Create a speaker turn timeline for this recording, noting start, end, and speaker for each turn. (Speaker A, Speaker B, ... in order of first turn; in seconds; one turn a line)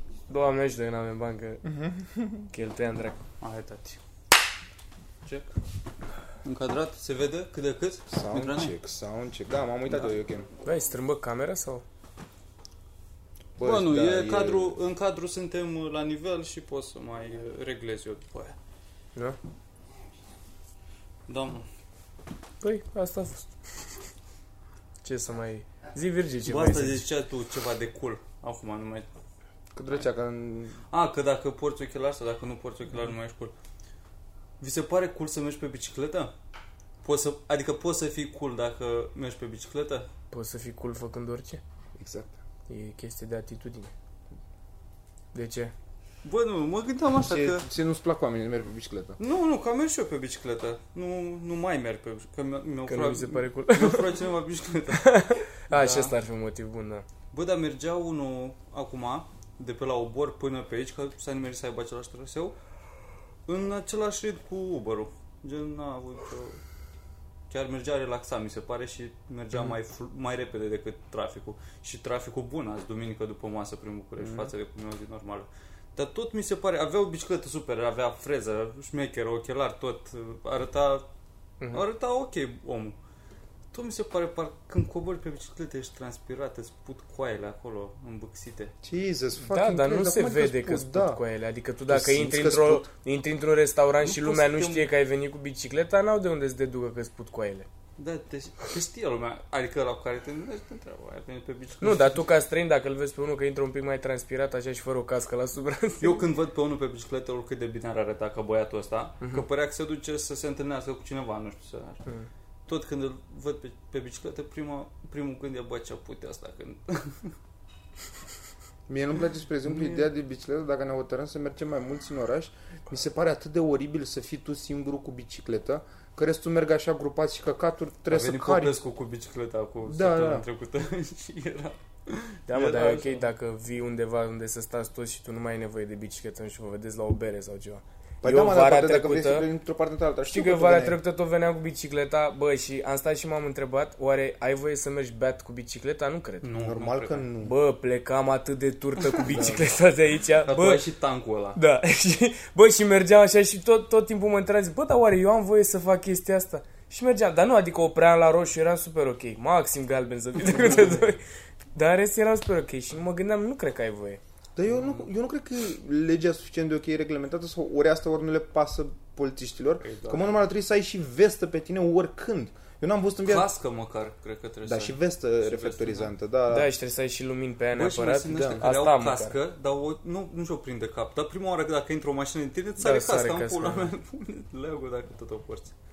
Speaker A: 0.3-1.6
Speaker B: 1.6-2.4
Speaker A: 2.5-3.2
Speaker C: 3.4-4.0
Speaker C: 5.2-5.5
Speaker C: 6.4-8.7
Speaker B: 8.1-10.4
Speaker C: 9.9-10.2
Speaker A: 10.6-11.8
Speaker B: 13.6-14.8
Speaker C: 13.6-18.6
Speaker C: 21.3-21.7
Speaker A: 22.6-23.5
Speaker A: 25.0-27.0
Speaker C: 26.4-29.1
Speaker B: 29.7-30.8
Speaker C: 30.9-33.5
Speaker C: 34.6-36.3
Speaker C: 37.0-40.1
Speaker A: 40.3-41.6
Speaker B: 42.0-42.4
Speaker A: 42.7-43.9
Speaker A: 45.3-45.7
Speaker C: 46.2-47.6
Speaker B: 47.2-49.2
Speaker C: 49.2-55.1
Speaker A: 52.9-54.1
Speaker A: 54.9-57.0
Speaker C: 55.7-56.1
Speaker C: 57.3-62.5
Speaker C: 63.5-66.6
Speaker C: 67.5-81.0
Speaker C: 81.7-83.0
Speaker C: 83.7-88.7
Speaker B: 88.8-91.2
Speaker A: 89.5-97.7
Speaker B: 91.9-92.9
Speaker C: 94.0-94.9
Speaker C: 98.0-102.2
Speaker A: 101.8-106.2
Speaker C: 106.0-112.0
Speaker C: 112.7-117.3
Speaker B: 118.9-128.8
Speaker C: 128.1-133.3
Speaker B: 129.8-130.4
Speaker A: 132.5-139.5
Speaker B: 138.2-141.0
Speaker A: 140.3-146.5
Speaker C: 146.4-147.3
Speaker B: 146.6-147.5
Speaker A: 147.4-150.8
Speaker C: 149.0-149.6
Speaker B: 149.3-149.6
Speaker C: 150.4-151.6
Speaker A: 151.6-161.2
Speaker A: 161.7-164.2
Speaker B: 164.6-173.5
Speaker C: 164.7-165.1
Speaker C: 169.8-170.4
Speaker C: 173.2-176.1
Speaker B: 174.7-176.7
Speaker A: 176.5-179.3
Speaker C: 177.7-185.7
Speaker B: 178.3-178.6
Speaker A: 182.8-183.9